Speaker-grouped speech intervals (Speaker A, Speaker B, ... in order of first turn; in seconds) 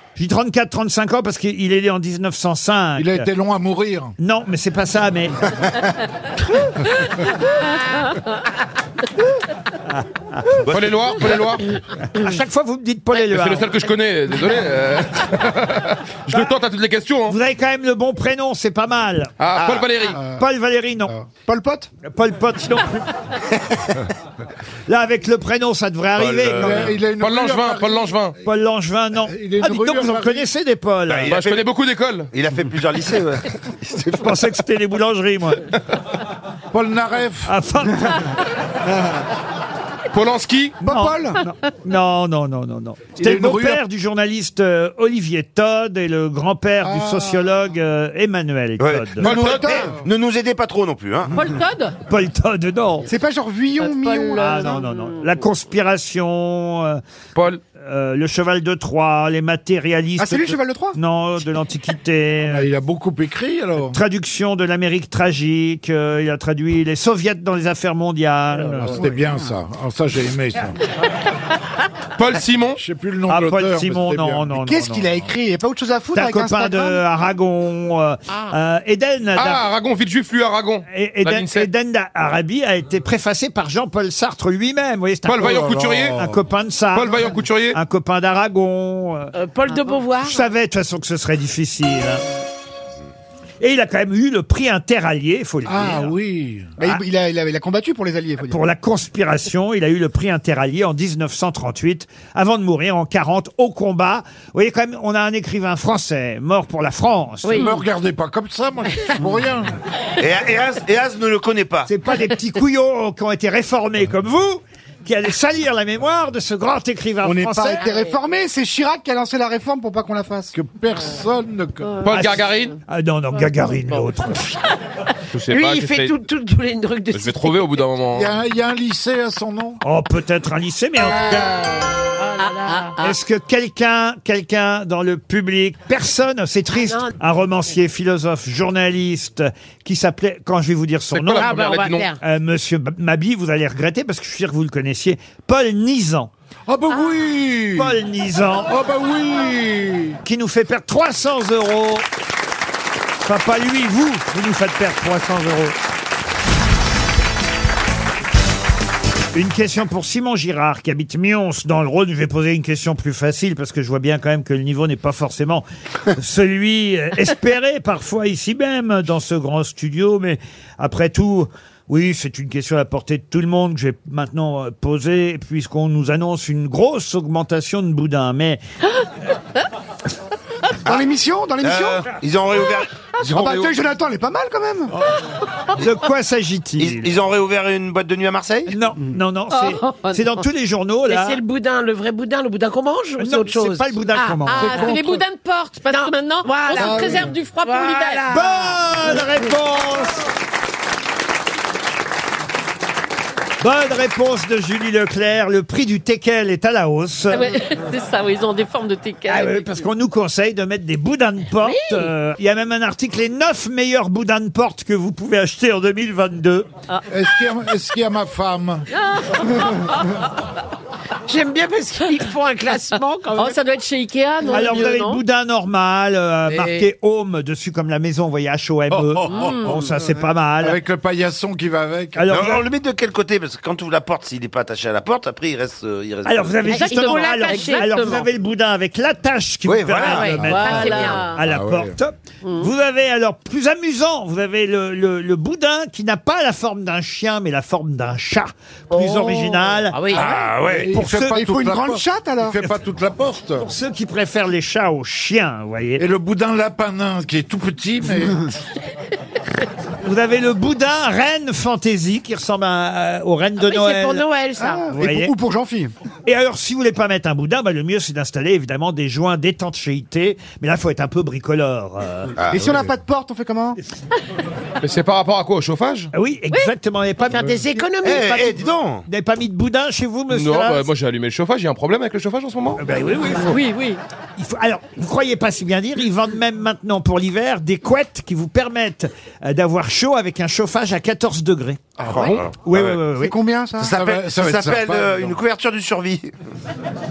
Speaker A: 0.1-3.3, 4.2-5.4, 9.9-10.7, 12.1-13.7, 17.3-19.4, 20.3-21.1, 22.0-23.1, 24.9-26.9, 28.4-31.4, 34.1-35.6, 37.5-38.3, 40.8-49.4, 52.1-53.1, 54.3-57.0, 57.8-62.7, 63.9-69.1, 73.3-75.0, 76.1-79.6, 80.9-85.5, 86.2-89.3, 90.2-92.2, 93.6-96.2, 98.5-107.6, 111.9-117.8, 122.1-124.5, 129.8-131.5, 133.0-141.6, 142.2-146.3, 147.7-148.7, 150.2-152.0, 153.2-155.8, 159.3-178.6, 185.8-187.1, 188.7-191.4, 193.2-194.8, 198.3-200.2, 203.6-207.5, 209.3-216.7, 224.5-230.8, 232.2-232.7, 236.2-250.1, 250.9-251.4, 253.6-256.0, 260.0-264.2, 264.9-265.3, 266.2-272.3, 276.1-277.6, 279.1-280.9, 282.8-283.6, 284.4-291.9, 292.5-293.3
Speaker B: 3.0-4.2, 20.1-20.4, 26.3-28.3, 29.2-30.5, 36.7-37.5, 43.1-43.8, 46.8-47.5, 62.4-64.0, 68.7-70.8, 72.8-75.2, 85.4-86.4, 95.7-96.7, 107.5-109.7, 120.5-122.0, 128.1-129.8, 146.7-148.0, 148.6-150.2, 194.6-195.1, 217.1-218.8, 228.9-230.1, 230.6-232.4, 240.3-240.8, 241.4-241.9, 250.1-253.7, 256.0-258.5, 292.0-292.5, 293.9-295.4
Speaker C: 10.7-11.7, 13.2-17.4, 19.4-20.2, 26.5-28.4, 31.2-32.3, 40.1-40.8, 49.2-49.8, 57.3-57.6, 72.1-72.8, 79.3-81.7, 85.2-86.2, 86.9-87.8, 122.0-122.8, 125.3-126.2, 127.1-128.3, 141.1-142.1, 274.8-276.1, 280.3-282.8
Speaker D: 19.6-19.9, 31.1-31.7, 32.3-34.3, 48.8-51.4, 110.2-111.9, 181.6-183.7, 186.8-188.7, 232.3-236.7, 239.7-240.3, 272.4-272.8, 278.0-279.0, 292.0-293.0, 293.8-296.3
Speaker E: 21.5-21.9, 40.8-41.4, 49.2-49.9, 53.1-54.8, 60.2-61.0, 74.6-77.0, 96.8-98.6, 117.2-120.5, 180.8-182.1, 183.2-184.9, 196.8-197.3, 251.3-252.6, 264.6-265.9, 272.4-273.8, 293.1-293.9
Speaker F: 51.3-51.9, 53.8-55.3, 132.4-133.0, 189.5-190.4, 194.4-198.4, 207.3-209.8, 223.3-225.2, 226.5-226.8, 229.3-229.7, 236.7-238.3, 240.1-241.4, 283.3-284.0
Speaker G: 89.3-90.5, 125.5-127.8, 132.3-133.1, 136.7-137.2, 141.3-142.2, 191.1-195.0, 195.9-198.7, 211.7-211.9, 221.3-223.6, 236.7-238.3, 239.9-241.3, 249.9-250.4, 263.6-264.9, 277.2-278.6